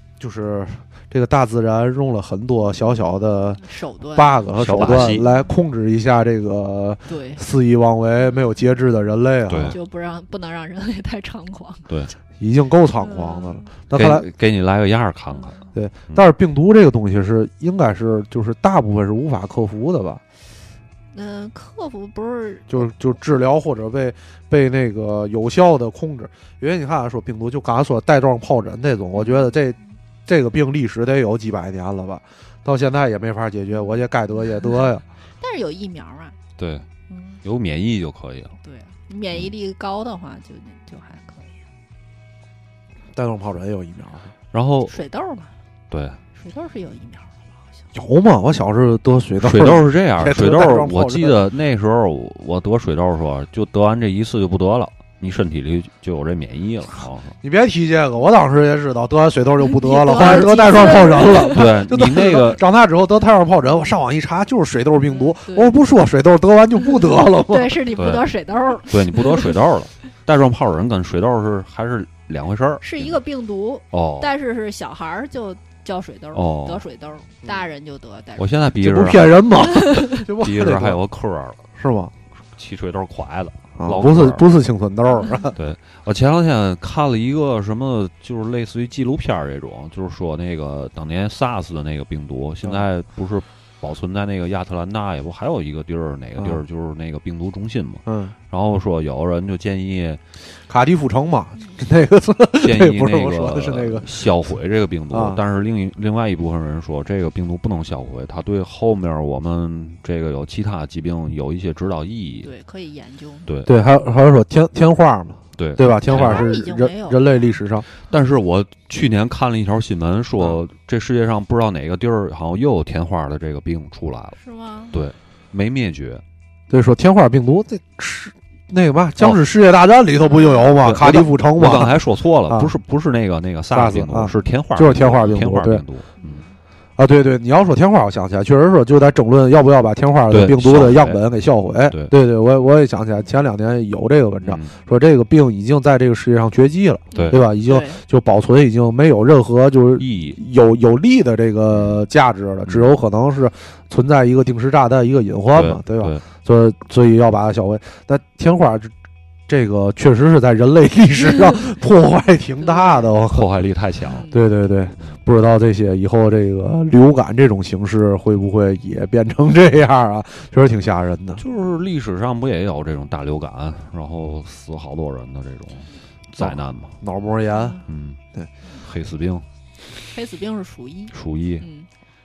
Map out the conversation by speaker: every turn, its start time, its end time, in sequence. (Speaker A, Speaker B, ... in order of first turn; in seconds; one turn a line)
Speaker A: 0.2-3.6
Speaker B: 3.6-5.5
Speaker A: 4.1-9.8
Speaker C: 4.6-5.2
Speaker B: 7.1-7.4
Speaker C: 9.5-9.8
Speaker B: 9.7-11.9
Speaker A: 12.4-14.2
Speaker B: 13.0-13.7
Speaker C: 13.9-15.6
Speaker B: 15.3-15.6
Speaker A: 15.7-20.2
Speaker B: 21.1-22.9
Speaker A: 22.7-35.0
Speaker B: 29.1-29.5
Speaker B: 33.7-34.0
Speaker B: 35.4-36.4
Speaker C: 36.6-36.9
Speaker B: 37.1-37.4
Speaker C: 37.4-38.5
Speaker B: 38.6-41.6
Speaker A: 43.1-44.3
Speaker C: 44.5-45.0
Speaker B: 44.9-45.5
Speaker C: 45.9-46.2
Speaker B: 46.3-47.8
Speaker A: 47.9-51.4
Speaker C: 49.4-57.3
Speaker A: 57.4-67.8
Speaker B: 59.6-61.7
Speaker C: 60.2-62.6
Speaker B: 65.0-65.8
Speaker B: 67.4-69.5
Speaker C: 68.0-68.2
Speaker C: 68.8-73.2
Speaker B: 72.8-78.6
Speaker C: 73.9-74.3
Speaker C: 76.3-76.8
Speaker C: 78.4-81.6
Speaker A: 78.7-81.0
Speaker B: 79.6-80.2
Speaker A: 81.8-82.1
Speaker C: 82.5-84.5
Speaker A: 83.8-85.5
Speaker C: 85.5-100.2
Speaker A: 96.4-96.6
Speaker A: 98.0-98.3
Speaker A: 100.7-104.1
Speaker C: 102.6-112.5
Speaker A: 105.1-105.4
Speaker B: 112.4-113.5
Speaker C: 113.5-113.7
Speaker A: 113.7-117.9
Speaker C: 115.6-116.5
Speaker B: 116.0-117.6
Speaker C: 118.1-124.4
Speaker B: 124.4-124.9
Speaker C: 124.9-126.2
Speaker A: 126.7-132.0
Speaker B: 130.3-130.7
Speaker C: 130.8-136.4
Speaker A: 132.5-132.7
Speaker A: 133.7-135.8
Speaker B: 136.2-136.6
Speaker A: 137.0-158.9
Speaker C: 140.3-141.2
Speaker C: 144.4-144.7
Speaker B: 147.1-148.0
Speaker C: 150.0-150.4
Speaker C: 151.7-152.0
Speaker C: 155.5-156.2
Speaker A: 159.5-163.5
Speaker B: 162.6-163.1
Speaker C: 163.3-164.2
Speaker B: 164.1-164.4
Speaker A: 164.3-171.4
Speaker C: 171.4-176.9
Speaker A: 176.4-177.8
Speaker B: 177.5-177.8
Speaker C: 177.9-178.2
Speaker C: 178.8-179.4
Speaker B: 180.1-181.9
Speaker C: 181.1-181.6